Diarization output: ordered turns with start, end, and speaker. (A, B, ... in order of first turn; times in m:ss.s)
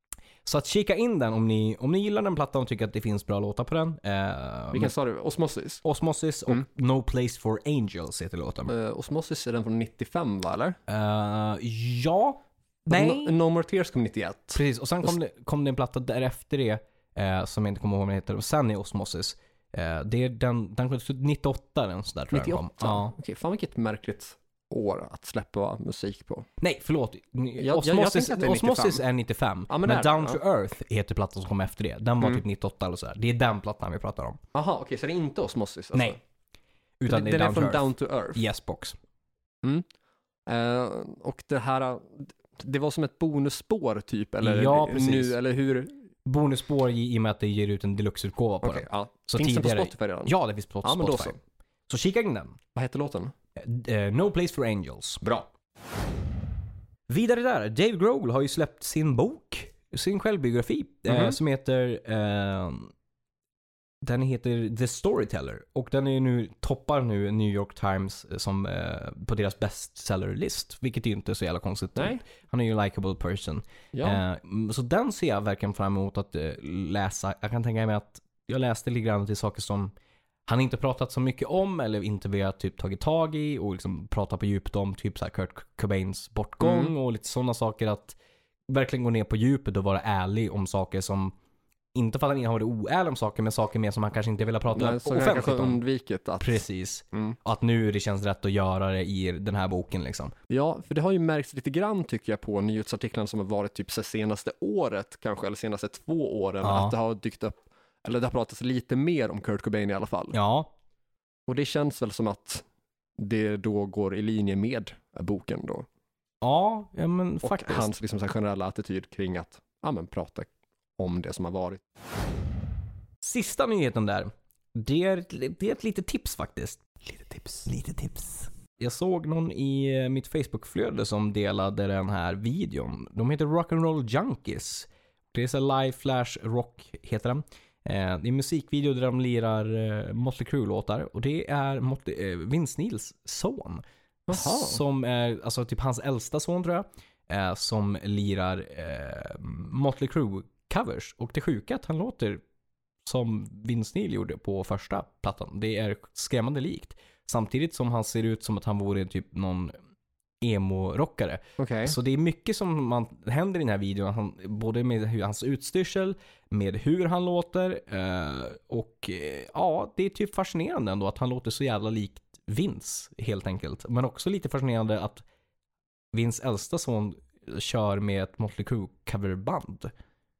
0:00.4-0:04.9 A
0:04.7-0:05.8 B
0:05.8-0:08.7 A
0:08.7-0:10.8 B
0:10.9-0:13.3 A
0:12.9-0:15.2 B
0:14.5-0:23.1 A
0:22.3-0:26.5 B
0:26.6-0:34.4 A
0:27.6-0:29.0 B
0:29.7-0:30.4 B
0:34.5-0:36.2 B
0:37.0-0:39.0 A
0:37.1-0:38.4 B
0:40.5-0:45.9 B
0:44.4-0:45.4 A
0:46.2-0:51.4 A
0:48.6-0:51.4 B
0:51.9-0:52.6 A
0:52.8-0:53.3 B
0:53.6-0:55.2 A
0:55.2-0:55.5 B
0:57.1-1:02.9 A
1:01.1-1:01.4 B
1:04.0-1:19.9 A
1:12.0-1:12.2 B
1:13.9-1:14.2 B
1:20.5-1:28.2 A
1:26.6-1:26.9 B
1:28.7-1:31.4 A
1:31.9-1:35.8 A
1:34.7-1:36.6 B
1:36.4-1:40.3 A
1:40.5-1:50.4 B
1:46.6-1:46.9 A
1:50.3-1:50.7 A
1:51.5-1:52.6 B
1:53.2-1:55.9 B
1:56.4-1:57.9 A
1:57.4-2:01.8 B
2:03.2-2:32.4 A
2:24.3-2:24.8 B
2:33.0-2:39.7 A
2:40.4-2:55.2 A
2:41.6-2:42.0 B
2:56.1-2:59.9 A